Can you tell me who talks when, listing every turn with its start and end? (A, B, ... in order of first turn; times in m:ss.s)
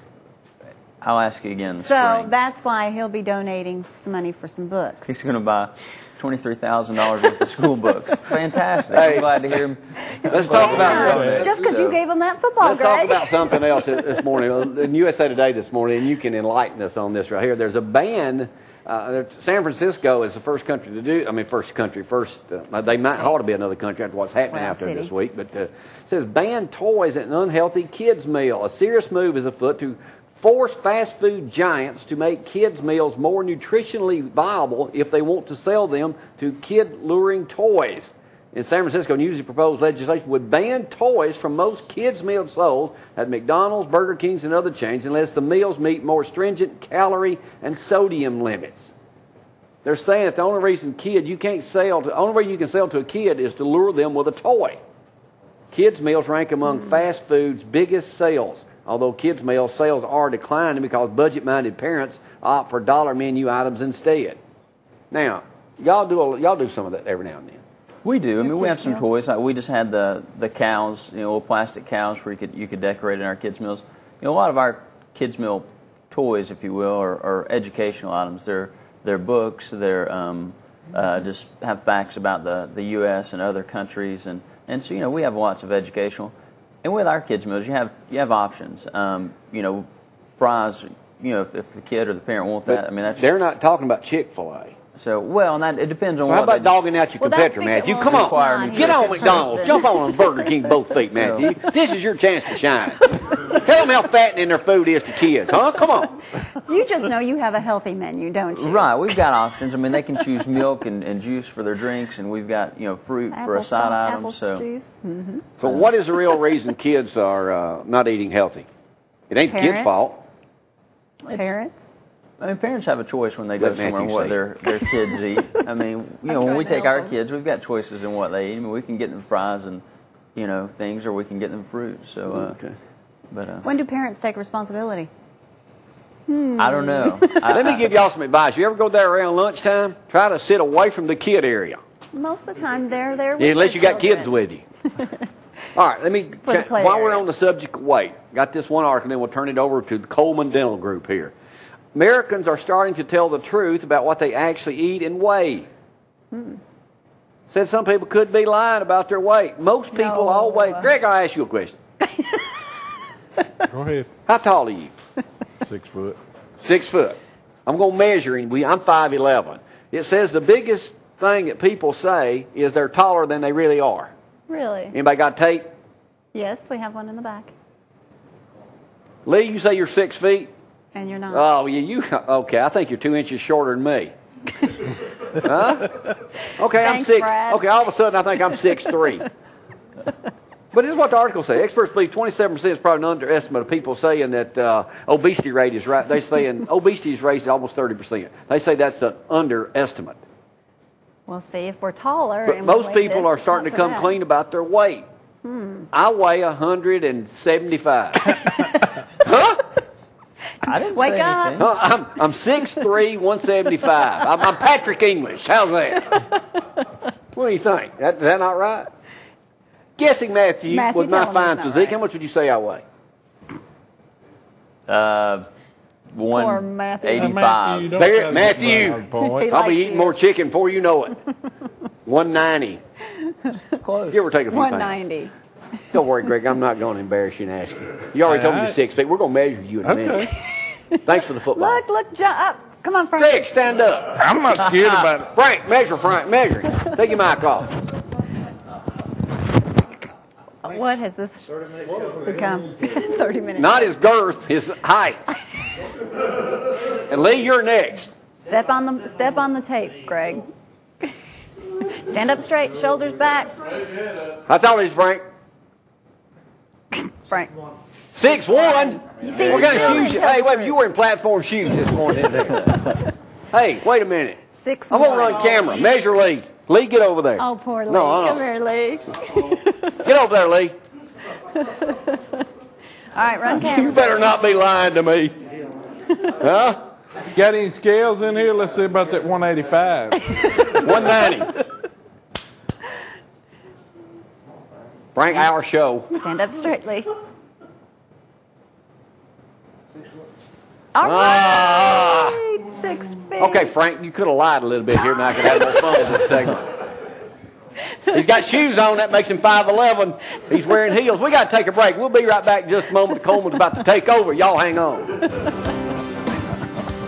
0:01.0-0:02.3 A
0:01.8-0:05.2 B
0:05.1-0:12.0 A
0:08.9-0:09.3 C
0:10.3-0:11.4 D
0:10.3-0:11.4 C
0:10.3-0:13.9 B
0:12.6-0:48.9 C
0:23.0-0:23.3 B
0:24.5-0:25.1 B
0:49.8-0:54.8 C
0:55.7-1:04.4 C
1:05.1-1:07.6 C
1:08.0-1:33.2 A
1:08.4-1:09.1 B
1:32.7-1:34.7 C
1:34.9-1:36.8 A
1:36.2-1:46.2 C
1:37.2-1:40.7 B
1:38.0-1:39.8 A
1:41.1-1:41.5 A
1:46.5-1:49.0 B
1:48.5-1:54.6 A
1:53.3-1:55.5 B
1:55.6-1:58.7 C
1:59.3-2:00.2 C
1:59.5-2:00.2 B
2:01.2-2:01.9 B
2:01.3-2:01.5 A
2:02.4-2:09.8 A
2:03.6-2:04.4 C
2:06.3-2:07.1 B
2:10.3-2:12.6 A
2:12.3-2:12.7 C
2:13.3-2:13.7 A
2:13.6-2:15.1 B
2:16.3-2:17.4 B
2:16.6-2:18.0 A
2:17.5-2:21.8 C
2:22.1-2:24.3 B
2:23.4-2:24.6 C
2:25.0-2:25.2 B
2:25.7-2:31.3 C
2:26.4-2:27.2 B
2:31.9-2:35.6 C
2:36.3-2:36.6 B
2:37.5-2:41.8 C
2:39.9-2:40.9 B
2:42.1-2:42.6 B
2:43.7-2:44.1 D
2:44.3-2:44.9 C
2:45.6-2:46.2 D
2:46.6-2:54.1 C
2:54.5-2:54.9 B
2:54.9-2:55.7 C
2:56.3-2:57.5 B
2:59.2-3:00.5 C
3:00.9-3:01.5 B
3:01.3-3:04.1 C
3:05.4-3:05.9 C
3:06.5-3:07.7 B
3:06.6-3:09.2 C
3:08.5-3:09.0 B
3:10.7-3:20.2 C
3:21.3-3:24.2 B
3:22.4-3:25.1 C
3:25.4-3:25.9 B
3:25.9-3:28.4 C
3:28.3-3:29.0 B
3:29.2-3:29.6 C
3:30.6-3:31.6 B
3:30.6-3:31.7 A
3:31.6-3:36.2 C
3:37.3-3:38.9 C
3:40.0-3:42.8 C
3:40.7-3:42.0 B
3:44.9-3:45.5 A
3:46.1-3:48.0 A
3:46.3-3:47.4 B
3:47.1-3:49.5 D
3:48.0-3:51.2 C
3:49.1-3:50.2 B
3:52.0-3:52.8 C
3:53.2-3:53.6 B
3:53.8-3:54.2 A
3:54.1-3:54.9 C
3:54.5-3:55.3 B
3:55.9-4:00.3 C
3:58.2-3:58.8 D
3:59.8-4:00.3 D
4:00.5-4:03.4 B
4:01.0-4:01.8 C
4:03.2-4:04.2 C
4:04.2-4:05.3 D
4:05.3-4:07.7 C
4:10.6-4:13.9 B
4:13.5-4:15.2 C
4:16.8-4:18.1 C
4:18.4-4:20.5 B
4:21.8-4:23.5 B
4:24.4-4:25.2 C
4:26.9-4:27.5 B
4:28.1-4:32.6 C
4:28.2-4:30.8 B
4:29.2-4:30.2 A
4:33.5-4:34.4 C
4:34.5-4:35.8 B
4:34.9-4:38.4 C
4:37.4-4:40.0 B
4:40.0-4:40.8 C
4:41.5-4:42.4 B
4:43.1-4:44.3 B
4:43.5-4:45.3 C
4:46.4-4:46.8 C
4:47.3-4:50.5 D
4:50.4-4:51.2 B
4:50.7-4:51.5 C
4:55.1-4:56.1 C
4:56.1-4:57.1 B
5:00.9-5:03.7 B
5:01.0-5:02.4 C
5:03.4-5:06.7 C
5:05.4-5:05.8 B
5:08.1-5:15.2 C